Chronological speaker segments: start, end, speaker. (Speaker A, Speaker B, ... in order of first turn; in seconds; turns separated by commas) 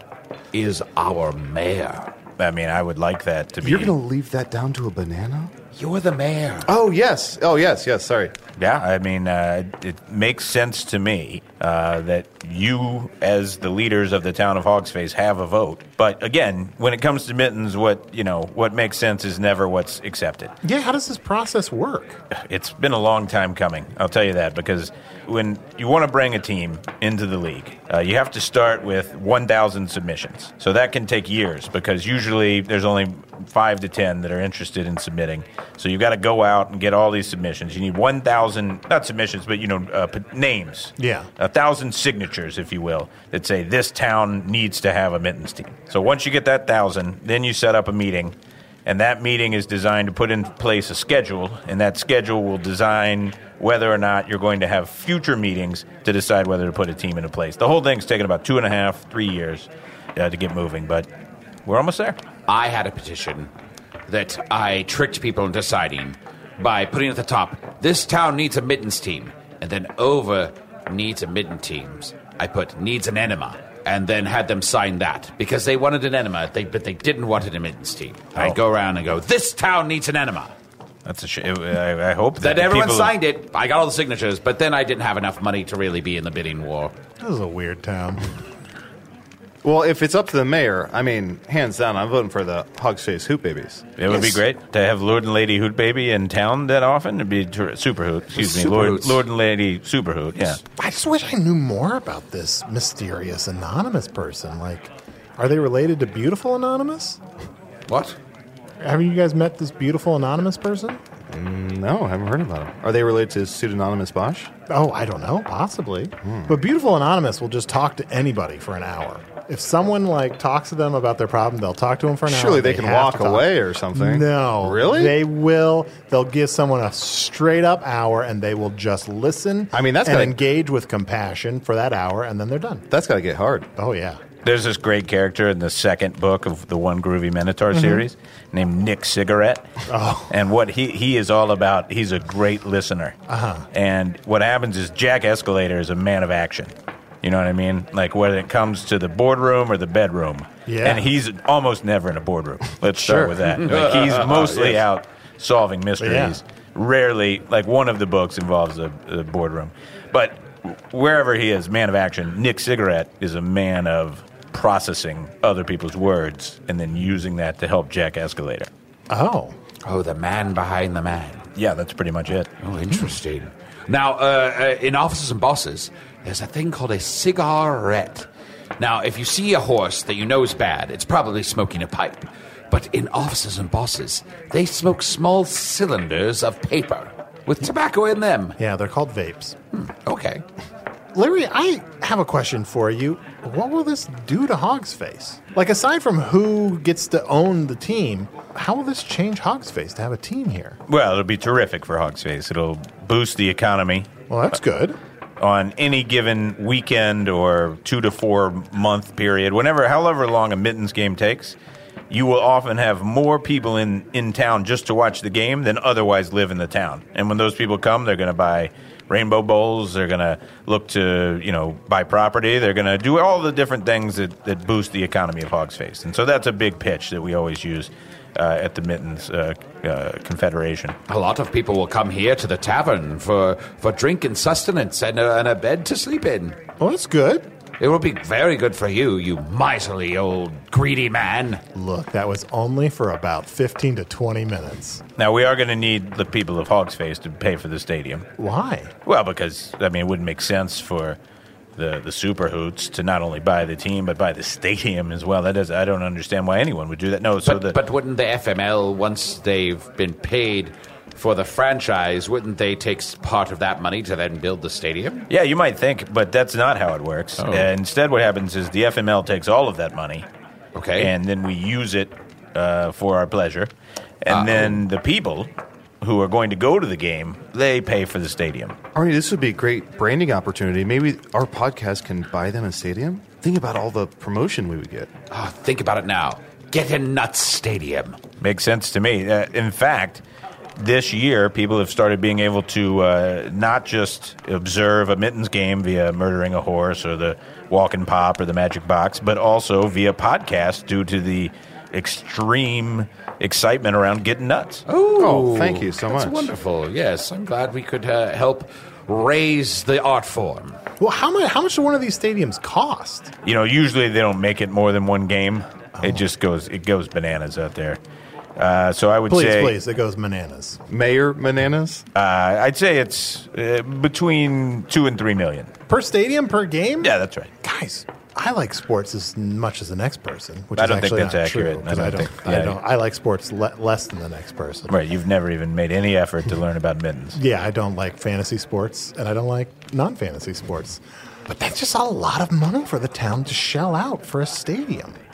Speaker A: 0.5-2.1, Speaker B: 2.4-3.9, Speaker C: 3.6-5.5, Speaker A: 5.8-6.7, Speaker C: 6.7-8.3, Speaker B: 8.6-20.5, Speaker D: 20.6-22.2, Speaker B: 22.4-48.4, Speaker D: 41.0-41.3, Speaker B: 48.9-61.1, Speaker B: 61.6-62.2, Speaker A: 62.5-63.5, Speaker A: 64.1-80.5, Speaker B: 81.1-83.1, Speaker A: 82.4-86.9, Speaker D: 87.2-88.3, Speaker C: 89.6-94.4, Speaker B: 94.0-100.6, Speaker A: 98.3-99.2, Speaker D: 100.8-107.2, Speaker A: 107.9-108.2, Speaker D: 108.8-111.0, Speaker C: 111.3-114.5, Speaker D: 114.7-132.8, Speaker C: 116.2-116.6, Speaker C: 122.3-125.2, Speaker C: 129.7-130.4, Speaker C: 132.9-133.7, Speaker D: 133.8-134.2, Speaker B: 134.4-139.7, Speaker D: 137.7-138.0, Speaker D: 139.9-140.3, Speaker B: 140.3-143.2, Speaker D: 143.3-143.7, Speaker B: 143.7-146.7, Speaker B: 147.2-168.7, Speaker D: 150.7-151.1, Speaker C: 153.0-153.3, Speaker A: 153.4-154.8, Speaker D: 156.0-156.4, Speaker D: 169.1-169.6, Speaker A: 169.8-171.5, Speaker B: 171.6-172.5, Speaker A: 172.6-178.3, Speaker A: 178.8-188.6, Speaker D: 188.6-189.6, Speaker A: 189.7-190.4, Speaker D: 191.1-200.8, Speaker B: 200.9-204.1, Speaker D: 204.3-205.0, Speaker B: 205.4-211.6, Speaker B: 212.1-231.0, Speaker A: 231.1-236.6, Speaker D: 236.8-237.5, Speaker A: 237.8-241.6, Speaker D: 241.8-245.0, Speaker B: 245.2-248.3, Speaker D: 248.4-248.9, Speaker B: 249.1-251.2, Speaker B: 251.8-257.8, Speaker A: 257.4-265.3, Speaker B: 265.3-270.3, Speaker A: 267.4-267.7, Speaker A: 270.8-271.1, Speaker B: 271.0-273.7, Speaker B: 274.2-275.5, Speaker A: 274.3-274.8, Speaker B: 276.0-278.8, Speaker C: 278.9-285.1, Speaker A: 285.3-288.2, Speaker B: 288.4-290.2, Speaker B: 290.8-304.8, Speaker A: 304.9-310.8, Speaker C: 305.2-306.5, Speaker D: 311.0-313.3, Speaker B: 313.4-318.0, Speaker D: 316.0-316.2, Speaker B: 318.6-319.8, Speaker D: 319.3-320.8, Speaker C: 320.9-322.1, Speaker B: 322.1-325.7, Speaker D: 325.9-334.9, Speaker B: 327.0-327.5, Speaker B: 330.8-332.8, Speaker B: 334.9-337.4, Speaker D: 337.4-345.2